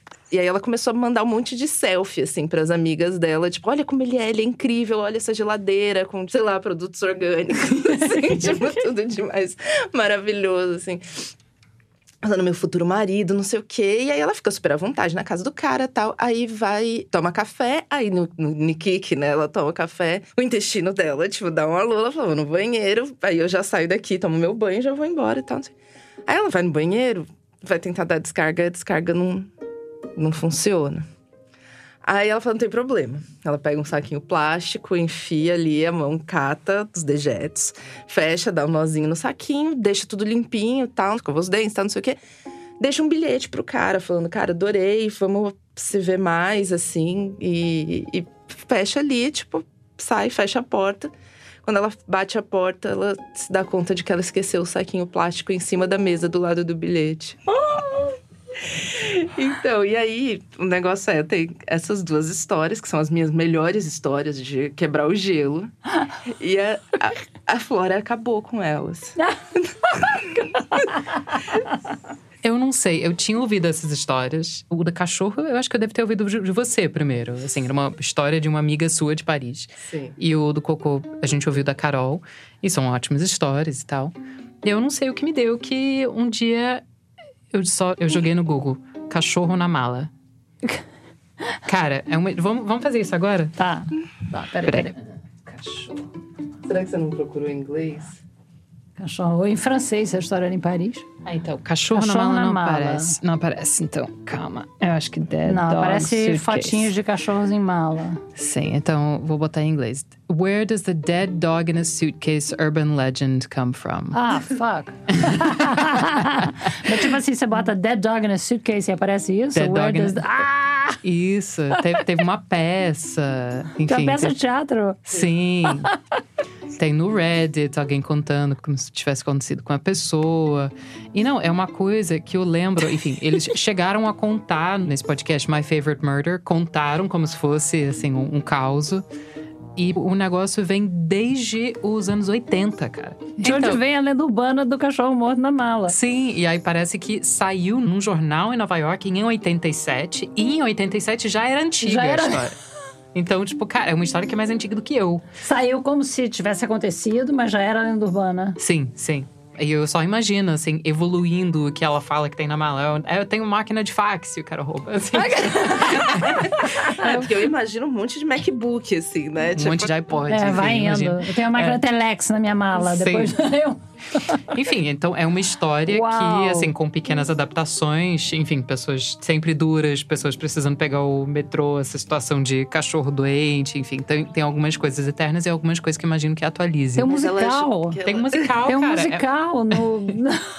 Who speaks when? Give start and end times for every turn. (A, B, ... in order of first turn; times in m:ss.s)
0:00.3-0:11.0 A
0:12.2-0:25.7 A
0:26.3-0:29.5 A
0:30.2-0:31.0 A
0:32.0-0:42.2 A
0:42.8-0:51.1 A
0:51.6-0:57.4 A
0:58.7-1:05.7 A
1:06.3-1:10.2 A
1:12.4-1:26.8 B
1:19.8-1:20.2 A
1:27.5-1:30.1 B
1:31.7-1:33.5 B
1:33.6-1:35.0 C
1:34.6-1:36.1 B
1:36.7-1:38.2 A
1:39.0-1:41.1 C
1:41.2-1:46.9 B
1:41.9-1:43.2 C
1:45.5-1:48.2 C
1:48.4-1:54.2 B
1:54.1-2:01.0 C
1:59.6-2:00.2 B
2:01.0-2:04.4 B
2:03.8-2:05.0 C
2:05.0-2:05.9 B
2:06.8-2:19.1 B
2:19.8-2:23.8 B
2:23.4-2:26.0 C
2:25.9-2:32.6 B
2:31.8-2:32.6 C
2:33.1-2:35.2 B
2:35.4-2:38.6 C
2:38.6-2:45.9 B
2:45.4-2:49.9 A
2:49.6-2:51.8 B
2:50.3-2:54.6 C
2:52.8-2:53.4 B
2:54.5-3:07.1 B
2:55.9-2:56.7 C
3:07.0-3:08.0 C
3:07.0-3:08.5 A
3:08.0-3:09.2 B
3:08.6-3:10.4 C